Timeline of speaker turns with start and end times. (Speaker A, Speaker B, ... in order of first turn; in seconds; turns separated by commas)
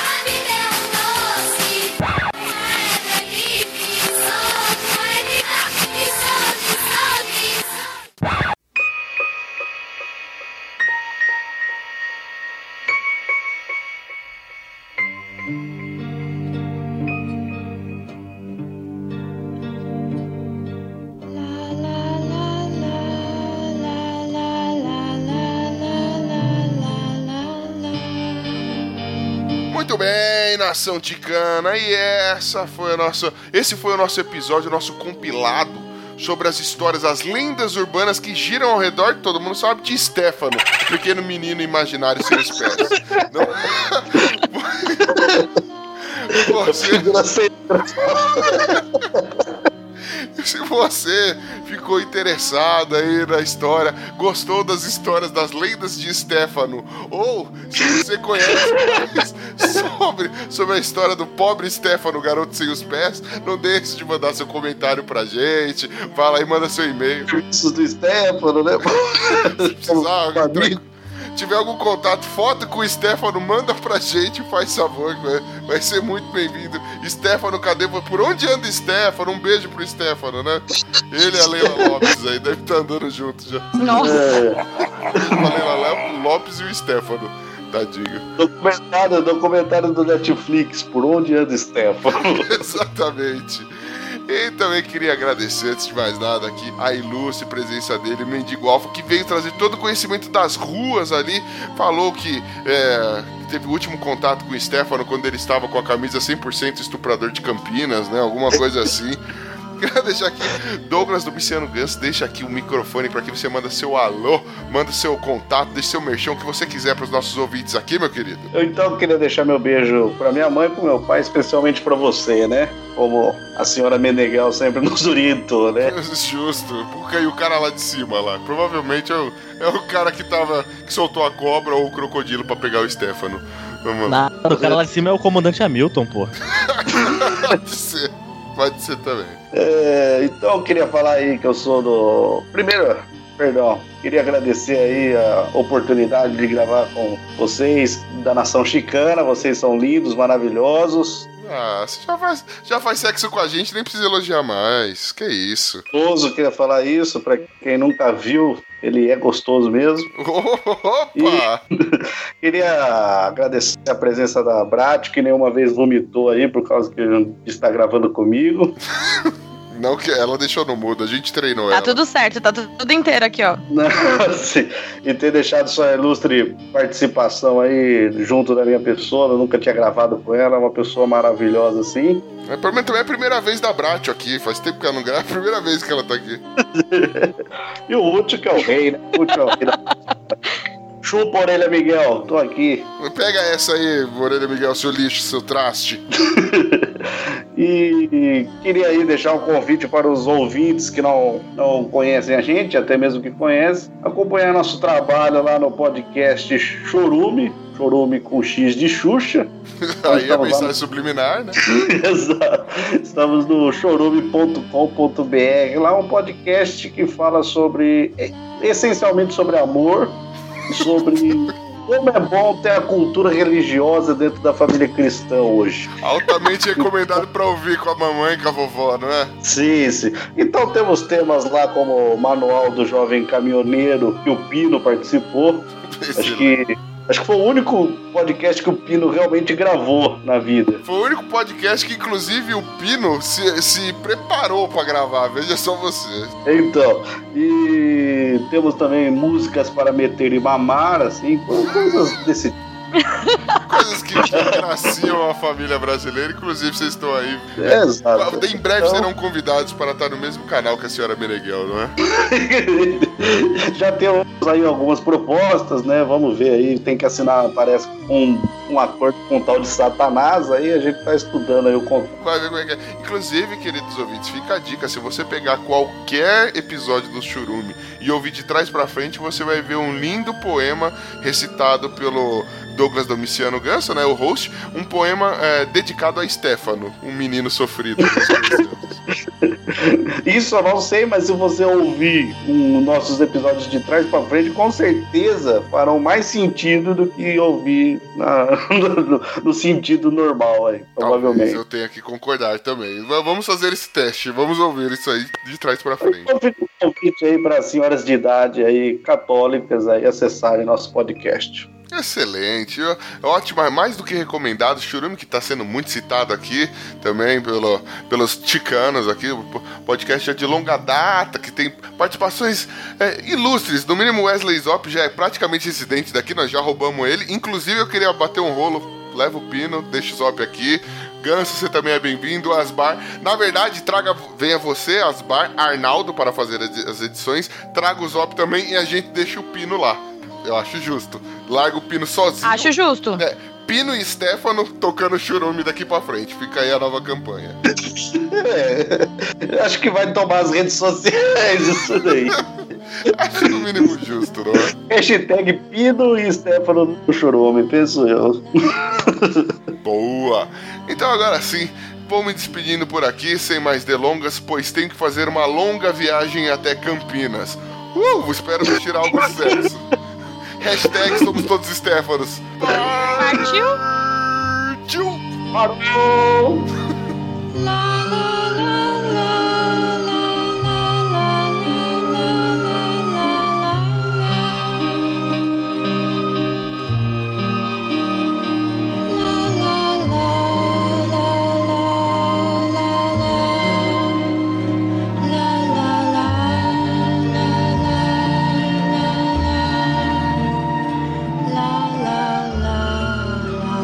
Speaker A: 29.7-45.4, Speaker B: 42.3-43.6, Speaker B: 45.1-45.5, Speaker A: 46.1-47.1, Speaker B: 46.3-49.6, Speaker A: 50.2-67.3, Speaker B: 57.8-59.8, Speaker B: 67.3-70.8, Speaker A: 69.2-84.2, Speaker B: 81.2-82.1, Speaker C: 83.8-84.2, Speaker B: 83.9-85.5, Speaker A: 85.1-88.2, Speaker B: 88.4-92.6, Speaker A: 92.4-109.2, Speaker A: 109.8-118.5, Speaker B: 118.5-126.0, Speaker A: 125.8-134.3, Speaker D: 134.1-136.3, Speaker B: 134.5-134.8, Speaker A: 136.5-139.4, Speaker B: 137.1-137.5, Speaker B: 139.5-151.3, Speaker A: 151.4-155.8, Speaker B: 155.9-160.1, Speaker A: 160.2-161.6, Speaker B: 161.2-168.8, Speaker A: 169.0-172.0, Speaker C: 171.7-173.6, Speaker B: 173.7-182.2, Speaker A: 182.4-186.4, Speaker B: 186.6-189.8, Speaker C: 189.3-189.9, Speaker B: 191.0-192.9, Speaker A: 193.0-196.0, Speaker B: 196.2-209.5, Speaker A: 209.8-211.6, Speaker B: 210.1-210.7, Speaker B: 211.6-220.2, Speaker B: 220.7-225.9, Speaker A: 226.0-229.3, Speaker B: 226.8-227.2, Speaker B: 229.4-240.8, Speaker A: 235.9-236.6, Speaker A: 240.8-246.3, Speaker B: 246.5-252.6, Speaker C: 253.0-253.6, Speaker A: 253.7-261.9, Speaker B: 254.2-255.1, Speaker B: 257.6-259.1, Speaker B: 262.1-272.2, Speaker A: 272.2-289.0, Speaker B: 288.1-288.4, Speaker B: 289.4-301.6, Speaker A: 301.0-306.3, Speaker B: 306.0-311.7, Speaker A: 311.9-347.6, Speaker C: 342.4-343.2, Speaker B: 347.8-352.4, Speaker A: 353.0-354.7, Speaker B: 353.4-353.9, Speaker B: 354.8-359.6, Speaker A: 359.8-370.0, Speaker B: 368.7-369.6, Speaker A: 370.6-375.2, Speaker B: 370.8-371.4, Speaker C: 373.1-373.8, Speaker B: 375.5-376.7